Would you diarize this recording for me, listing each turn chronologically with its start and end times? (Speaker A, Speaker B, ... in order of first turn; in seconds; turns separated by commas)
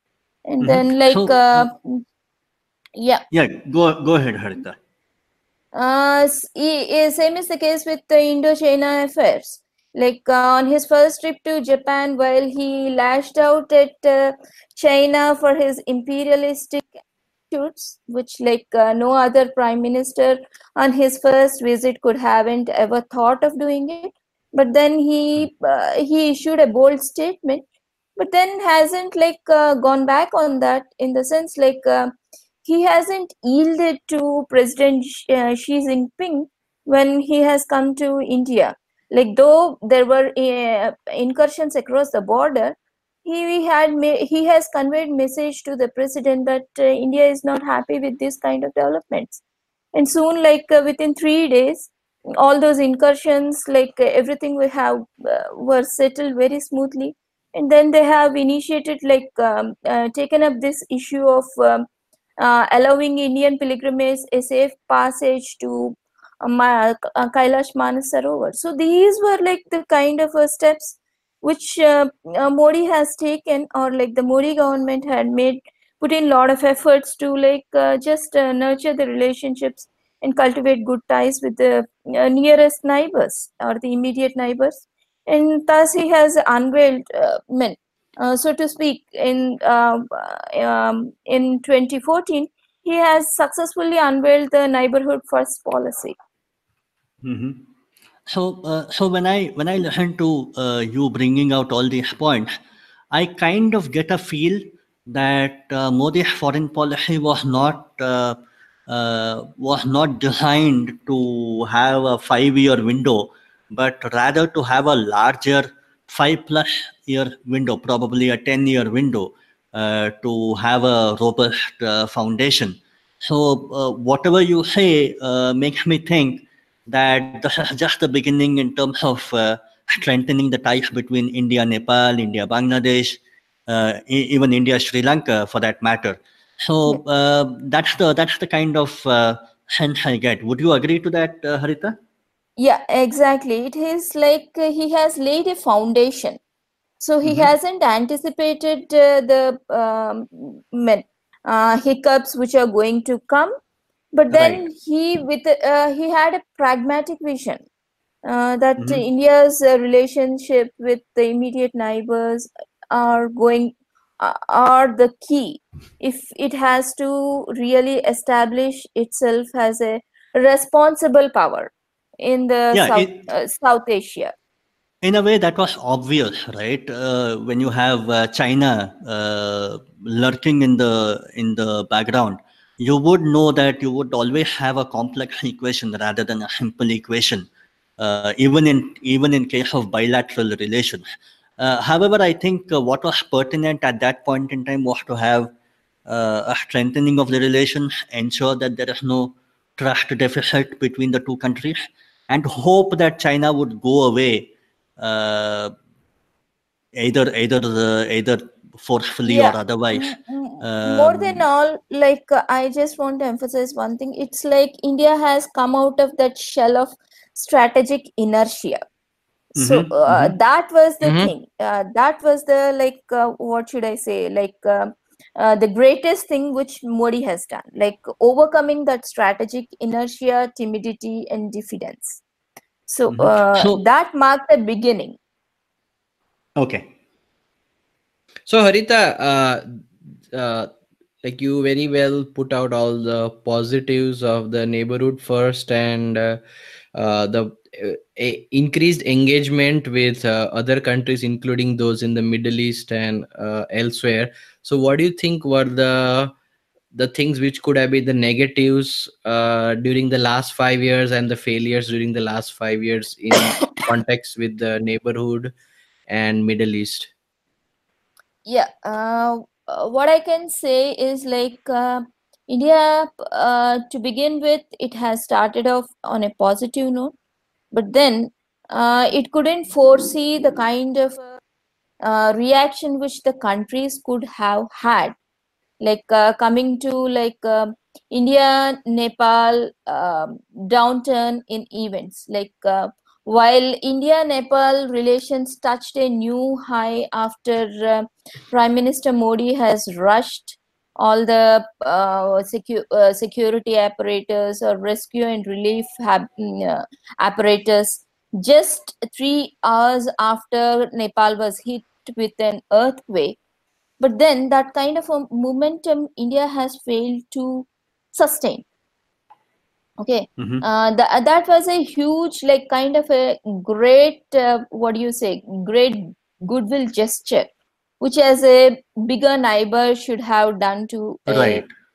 Speaker A: 0.5-2.0, Speaker B: 0.6-1.7, Speaker A: 3.0-3.2, Speaker B: 3.3-4.8, Speaker A: 5.7-16.9, Speaker A: 17.5-27.6, Speaker A: 28.2-32.1, Speaker A: 32.6-49.4, Speaker A: 49.9-61.8, Speaker A: 62.4-96.1, Speaker B: 97.2-97.6, Speaker B: 98.3-102.5, Speaker B: 103.1-142.0, Speaker A: 142.6-146.4, Speaker A: 147.0-153.5, Speaker B: 147.2-147.5, Speaker A: 154.1-157.6, Speaker B: 154.3-154.6, Speaker A: 158.2-171.7, Speaker B: 158.8-159.0, Speaker A: 172.2-174.3, Speaker B: 172.7-173.2, Speaker B: 175.0-187.5, Speaker B: 188.0-191.1, Speaker B: 191.6-195.5, Speaker B: 196.1-205.7, Speaker B: 206.9-211.4, Speaker A: 209.2-218.8, Speaker A: 219.5-232.2, Speaker B: 219.6-220.3, Speaker C: 221.0-221.3, Speaker A: 232.9-235.2, Speaker B: 233.1-233.8, Speaker B: 236.6-236.9, Speaker C: 238.5-239.8, Speaker C: 240.3-240.7, Speaker C: 241.2-246.4, Speaker C: 246.9-256.3, Speaker C: 256.9-265.5, Speaker A: 263.4-263.8, Speaker C: 266.1-267.1, Speaker A: 268.4-277.1, Speaker A: 277.7-281.4, Speaker A: 282.0-285.1, Speaker A: 285.8-313.4, Speaker A: 314.0-318.6, Speaker A: 320.0-331.6, Speaker B: 320.4-320.6, Speaker B: 331.3-331.7